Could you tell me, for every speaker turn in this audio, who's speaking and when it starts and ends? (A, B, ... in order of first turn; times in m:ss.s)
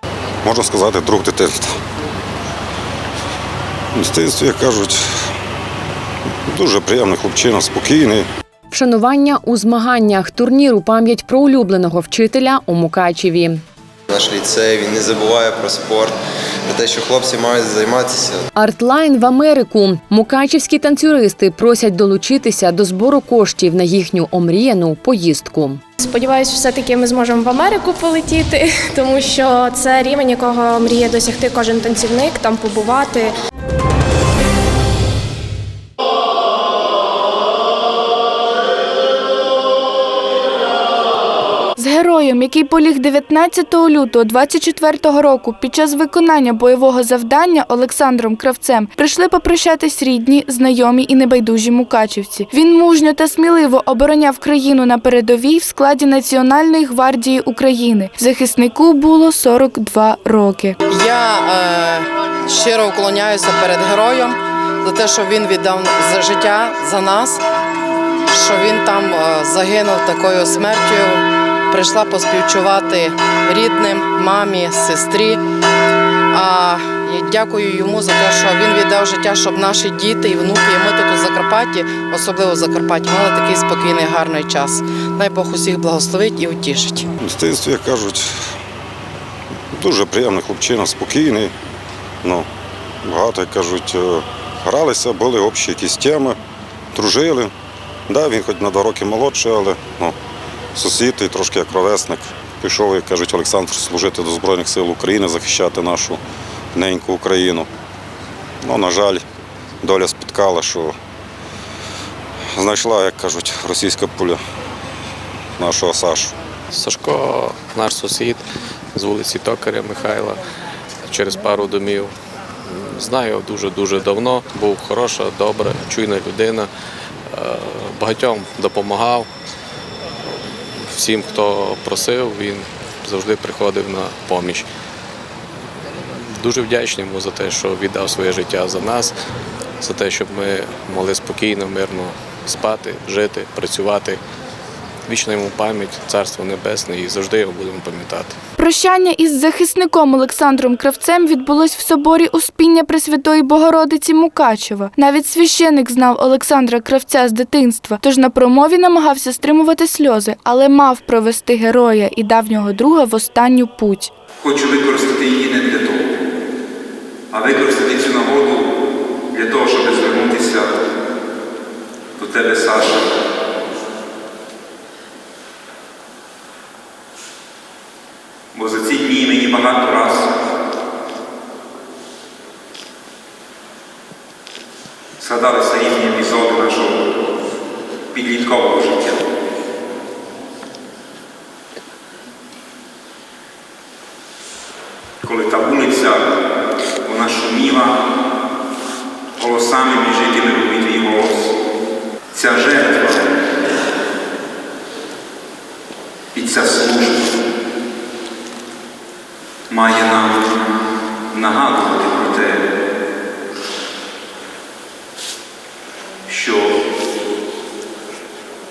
0:00.4-0:01.8 A
0:04.0-0:05.2 A
0:06.5-0:08.3 A
0:08.7-0:13.6 B
0:14.1-0:16.2 C
0:16.7-0:18.4 C
0:18.6-0:25.8 B
0:26.0-0:33.3 D
0:41.8-1:00.8 E
1:00.9-1:07.4 F
1:08.3-1:15.4 F
1:16.3-1:27.1 F
1:27.2-1:28.4 A
1:29.7-1:31.5 A
1:33.0-1:36.4 A
1:36.9-1:37.5 A
1:38.1-1:40.2 A
1:40.8-1:46.2 A
1:46.8-1:47.7 A
1:48.6-1:49.2 A
1:49.8-1:51.0 A
1:52.5-1:54.4 A
1:55.6-1:56.3 A
1:56.7-1:58.4 G
1:59.0-2:00.4 G
2:01.1-2:02.1 G
2:02.7-2:06.7 G
2:07.3-2:09.3 G
2:10.9-2:14.7 G
2:16.3-2:19.1 G
2:19.8-2:24.2 G
2:25.1-2:28.4 G
2:28.6-2:44.1 E
2:44.4-2:46.1 H
2:47.3-2:48.7 H
2:49.3-2:50.7 H
2:52.2-2:53.1 H
2:58.5-3:00.3 H
3:05.2-3:07.0 H
3:08.1-3:09.2 H
3:15.2-3:16.3 H
3:17.0-3:18.0 H
3:19.4-3:21.5 H
3:22.3-3:23.3 H
3:26.4-3:27.2 H
3:29.7-3:30.4 H
3:31.3-3:32.7 H
3:36.3-3:36.8 H